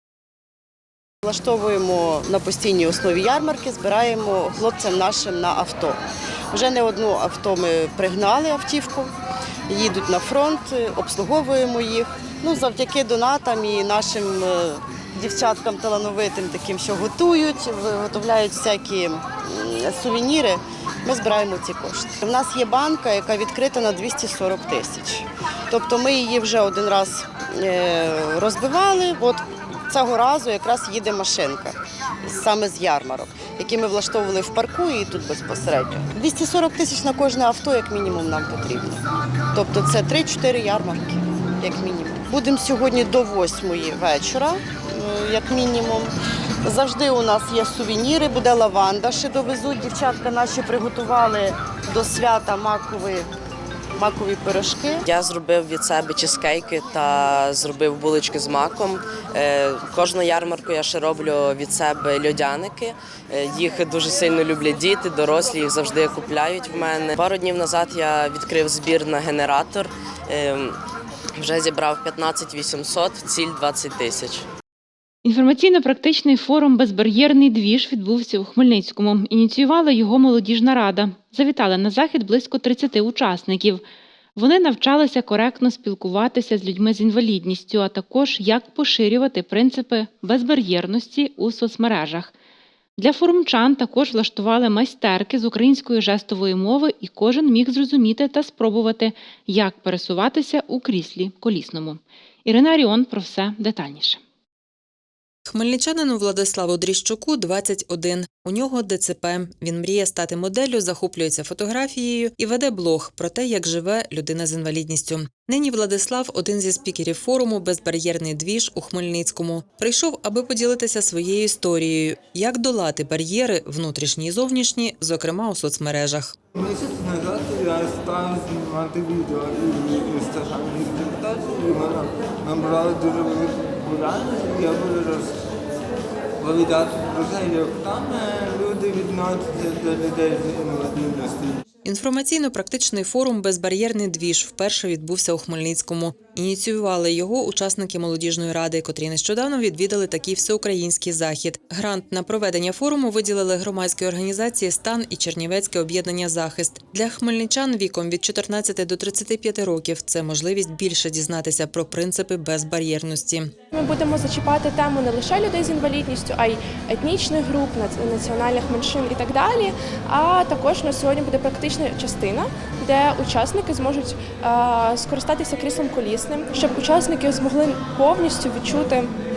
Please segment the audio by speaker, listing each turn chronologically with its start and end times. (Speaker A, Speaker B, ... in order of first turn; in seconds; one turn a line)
Speaker A: 1.2-9.1
Speaker A: 9.7-39.0
Speaker A: 39.5-46.1
Speaker A: 46.6-53.3
Speaker A: 54.0-55.0
Speaker B: 55.1-70.8
Speaker B: 71.4-74.4
Speaker C: 75.2-83.8
Speaker C: 84.3-92.3
Speaker C: 93.0-104.2
Speaker D: 105.5-126.3
Speaker E: 126.5-135.3
Speaker E: 136.4-141.6
Speaker D: 141.8-163.5
Speaker F: 163.7-179.1